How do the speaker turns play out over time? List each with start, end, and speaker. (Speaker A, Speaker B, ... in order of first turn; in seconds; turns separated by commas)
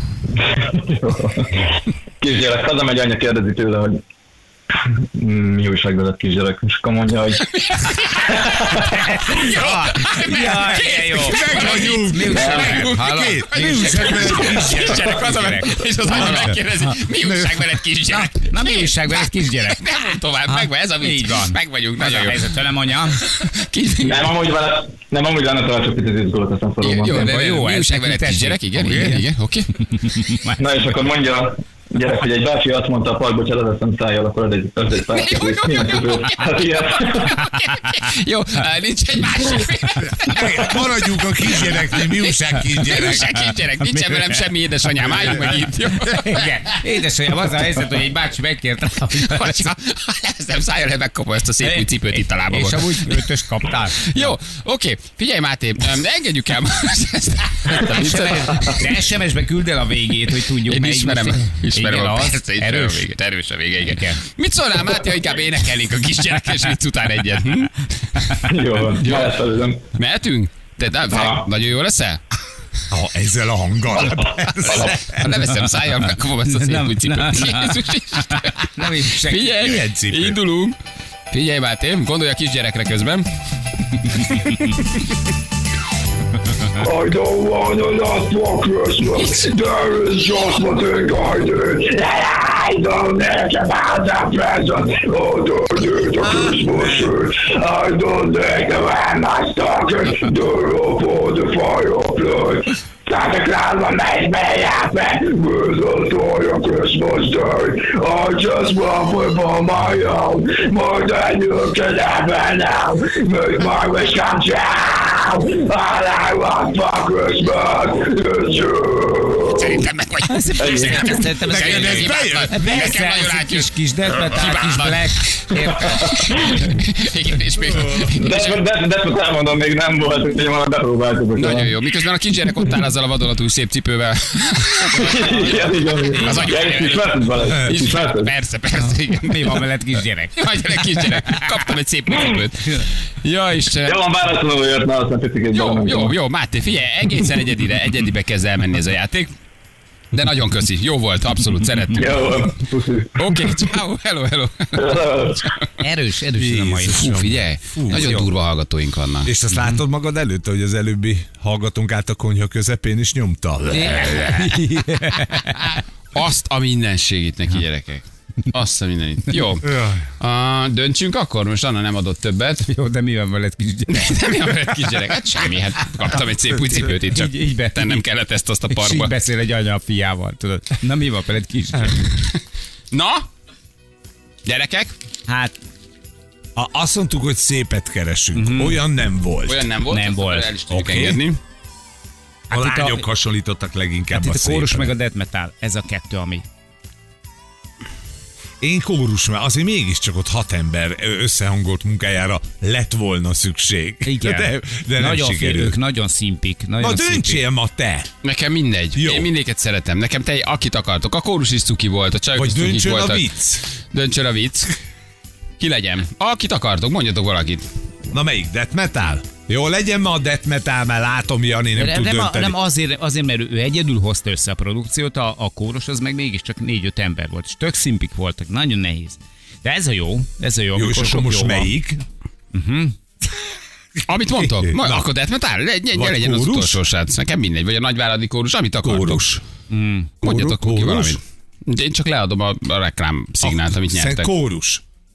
Speaker A: 0.4-1.7, Speaker A: 2.2-4.0, Speaker A: 5.2-7.4, Speaker B: 7.5-8.4, Speaker A: 8.4-8.8, Speaker C: 8.8-9.5, Speaker B: 9.2-22.4, Speaker D: 9.4-15.2, Speaker C: 10.2-16.6, Speaker D: 16.1-16.6, Speaker D: 17.2-17.6, Speaker C: 18.1-19.9, Speaker C: 20.5-23.2, Speaker B: 23.2-24.3, Speaker A: 24.1-27.2, Speaker B: 26.8-29.7, Speaker C: 27.1-29.2, Speaker C: 29.9-30.6, Speaker A: 30.6-37.4, Speaker B: 35.1-46.5, Speaker D: 40.2-43.3, Speaker C: 42.8-49.7, Speaker B: 49.3-53.2, Speaker C: 51.6-54.3, Speaker B: 54.0-58.8, Speaker C: 57.7-63.1, Speaker B: 60.7-68.2, Speaker C: 63.8-64.2, Speaker A: 68.5-69.8, Speaker B: 69.0-69.4, Speaker B: 70.0-72.2, Speaker A: 71.1-71.5, Speaker D: 72.9-75.3, Speaker B: 74.7-80.8, Speaker C: 76.5-77.8, Speaker C: 78.4-79.9, Speaker D: 79.7-80.4, Speaker B: 81.3-83.3, Speaker C: 84.2-84.7, Speaker B: 84.3-85.0, Speaker E: 86.8-119.7, Speaker D: 96.2-96.6, Speaker B: 119.5-128.6, Speaker C: 120.3-126.0, Speaker A: 120.6-121.0, Speaker D: 121.4-123.1, Speaker A: 126.1-126.5, Speaker A: 128.1-131.7, Speaker B: 131.4-139.6, Speaker A: 134.9-138.3, Speaker C: 138.7-141.4, Speaker B: 140.3-144.1, Speaker A: 143.9-146.2, Speaker B: 145.5-149.3, Speaker B: 150.1-152.2, Speaker A: 151.9-153.4, Speaker B: 153.2-155.7, Speaker A: 154.8-155.4, Speaker C: 155.8-158.2, Speaker D: 156.4-158.3, Speaker B: 156.9-159.3, Speaker D: 159.2-165.2, Speaker C: 159.5-159.8, Speaker C: 163.7-165.8, Speaker B: 166.1-172.7, Speaker D: 169.7-170.0, Speaker C: 172.7-174.2, Speaker B: 173.9-179.1, Speaker C: 176.6-178.0, Speaker C: 178.7-182.0, Speaker B: 181.9-183.2, Speaker B: 184.5-184.9, Speaker C: 185.3-185.5, Speaker D: 186.6-189.7, Speaker C: 188.3-188.9, Speaker B: 189.4-191.4, Speaker C: 189.9-190.5, Speaker D: 190.7-191.2, Speaker C: 192.5-193.0, Speaker D: 192.5-194.9, Speaker C: 194.1-196.4, Speaker D: 198.6-205.8, Speaker C: 204.1-207.4, Speaker D: 206.8-208.1, Speaker B: 208.2-213.2, Speaker D: 208.9-209.3, Speaker D: 212.3-213.7, Speaker B: 213.9-214.7, Speaker B: 215.6-217.7, Speaker D: 218.1-222.6, Speaker C: 221.8-231.7, Speaker D: 230.8-232.0, Speaker C: 232.5-232.9, Speaker B: 234.1-239.3, Speaker D: 234.3-235.1, Speaker D: 235.9-236.8, Speaker D: 238.8-239.4, Speaker C: 239.7-240.1, Speaker D: 240.2-241.2, Speaker B: 240.2-244.3, Speaker D: 243.4-244.8